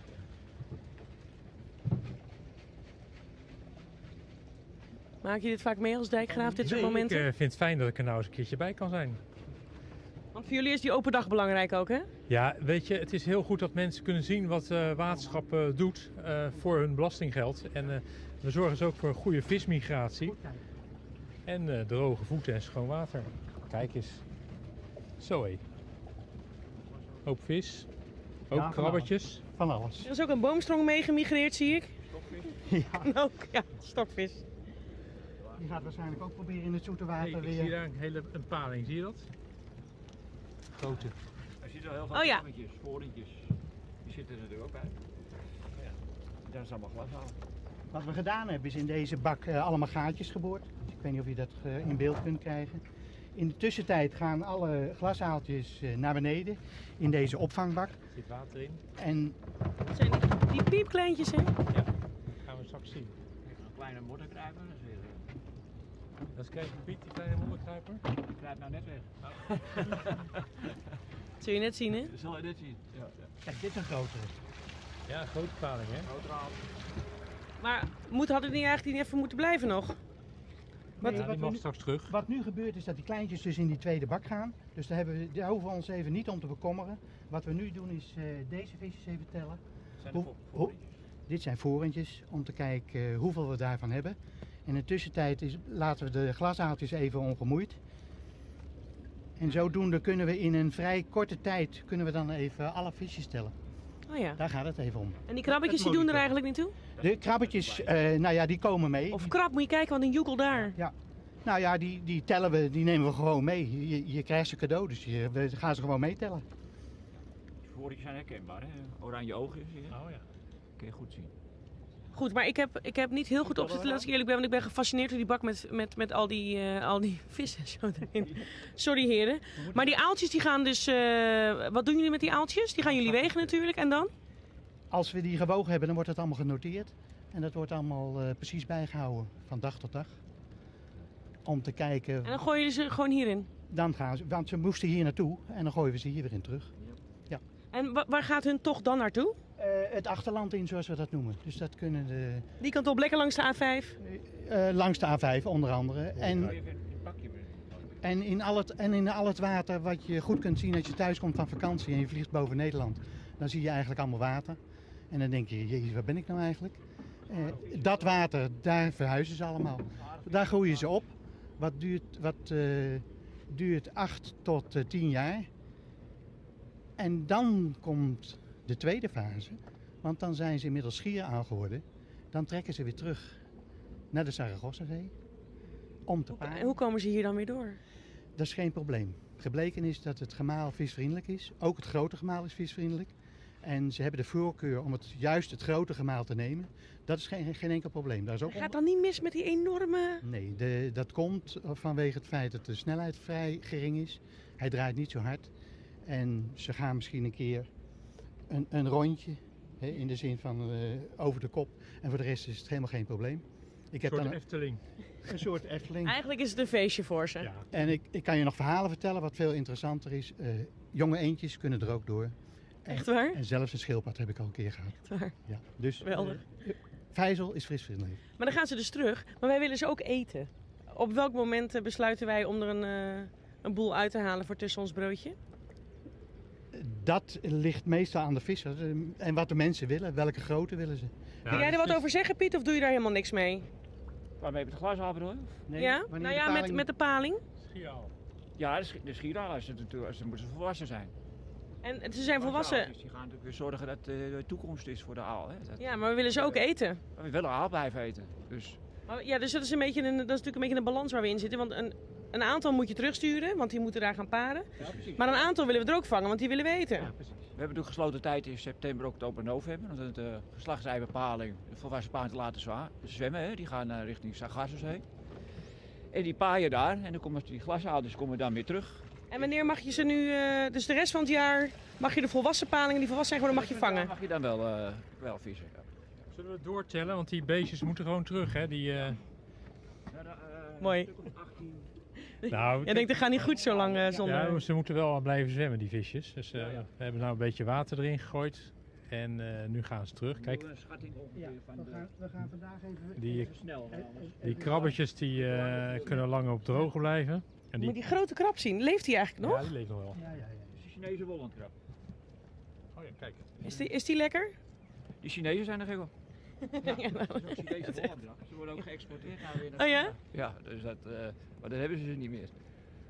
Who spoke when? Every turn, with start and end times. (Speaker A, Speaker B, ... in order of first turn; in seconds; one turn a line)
Speaker A: 5.2-7.2
Speaker B: 6.3-9.2
Speaker C: 6.6-7.0
Speaker A: 10.3-12.1
Speaker B: 12.3-20.4
Speaker C: 15.1-15.4
Speaker C: 20.2-20.6
Speaker B: 21.4-24.2
Speaker B: 25.2-25.6
Speaker B: 27.2-27.9
Speaker B: 28.5-29.4
Speaker C: 28.5-30.1
Speaker A: 30.0-31.9
Speaker D: 32.1-32.5
Speaker C: 32.6-33.1
Speaker A: 33.0-34.4
Speaker D: 35.4-35.7
Speaker C: 35.6-37.7
Speaker B: 37.2-39.3
Speaker B: 40.7-41.1
Speaker D: 41.6-43.5
Speaker A: 42.1-42.4
Speaker D: 44.0-44.9
Speaker D: 46.4-47.4
Speaker C: 47.9-52.8
Speaker C: 53.3-58.0
Speaker B: 58.1-58.8
Speaker C: 59.0-59.4
Speaker A: 59.9-61.5
Speaker B: 62.4-63.1
Speaker D: 63.4-65.2
Speaker B: 66.3-68.0
Speaker D: 68.3-70.8
Speaker B: 69.3-69.9
Speaker A: 71.4-72.1
Speaker D: 72.0-73.3
Speaker C: 73.4-74.3
Speaker B: 75.1-76.1
Speaker D: 76.0-76.6
Speaker A: 77.6-80.0
Speaker C: 81.0-89.6
Speaker B: 81.0-82.1
Speaker D: 90.0-90.8
Speaker C: 90.1-90.7
Speaker C: 91.3-97.8
Speaker C: 99.4-103.5
Speaker A: 104.1-104.4
Speaker C: 104.4-106.3
Speaker A: 105.3-106.8
Speaker D: 107.0-107.9
Speaker C: 107.0-109.3
Speaker A: 109.1-110.8
Speaker C: 110.7-116.4
Speaker D: 117.6-120.0
Speaker B: 119.9-120.2
Speaker D: 120.8-121.3
Speaker A: 122.1-134.1
Speaker C: 123.4-124.1
Speaker C: 129.6-130.0
Speaker C: 134.9-140.2
Speaker C: 141.4-142.4
Speaker A: 142.2-143.5
Speaker C: 143.7-146.7
Speaker A: 147.7-149.4
Speaker C: 149.6-152.5
Speaker A: 152.6-154.0
Speaker C: 154.0-156.6
Speaker D: 156.2-158.0
Speaker C: 158.0-164.6
Speaker C: 165.1-175.5
Speaker D: 167.3-168.2
Speaker D: 170.0-171.0
Speaker C: 177.0-183.4
Speaker C: 184.1-185.1
Speaker C: 186.1-186.8
Speaker A: 186.3-187.8
Speaker C: 188.3-198.8
Speaker A: 198.5-200.2
Speaker C: 200.2-205.5
Speaker C: 206.0-207.7
Speaker C: 208.5-214.4
Speaker B: 214.1-214.8
Speaker C: 215.2-216.2
Speaker A: 216.0-217.5
Speaker B: 217.4-217.7
Speaker C: 217.7-228.2
Speaker A: 222.9-223.4
Speaker A: 225.1-225.3
Speaker A: 226.0-226.4
Speaker A: 228.4-235.3
Speaker C: 236.7-241.9
Speaker B: 241.4-242.0
Speaker A: 241.5-243.7
Speaker D: 244.4-245.6
Speaker C: 245.7-246.8
Speaker A: 245.8-247.4
Speaker B: 247.6-248.1
Speaker D: 248.6-251.1
Speaker A: 251.8-252.9
Speaker D: 252.2-256.6
Speaker A: 255.8-257.0
Speaker D: 257.1-258.8
Speaker A: 259.1-267.1
Speaker D: 264.8-265.5
Speaker C: 264.8-265.2
Speaker C: 267.0-267.5
Speaker D: 267.6-275.0
Speaker D: 276.1-280.1
Speaker A: 279.3-284.1
Speaker D: 283.5-285.9
Speaker B: 286.3-289.2
Speaker D: 290.1-291.9
Speaker A: 290.8-291.1
Speaker A: 292.3-294.6
Speaker B: 292.5-293.1
Speaker D: 293.0-294.3
Speaker B: 294.2-300.6
Speaker D: 296.5-296.9
Speaker D: 300.3-302.1
Speaker C: 301.3-304.9
Speaker B: 303.2-303.5
Speaker D: 303.4-306.3
Speaker B: 304.4-307.9
Speaker A: 307.8-309.7
Speaker B: 309.4-310.2
Speaker C: 310.1-310.7
Speaker D: 310.8-311.7
Speaker B: 312.9-313.5
Speaker A: 313.6-314.6
Speaker D: 315.2-316.1
Speaker A: 316.6-318.1
Speaker D: 316.8-322.5
Speaker A: 319.8-320.1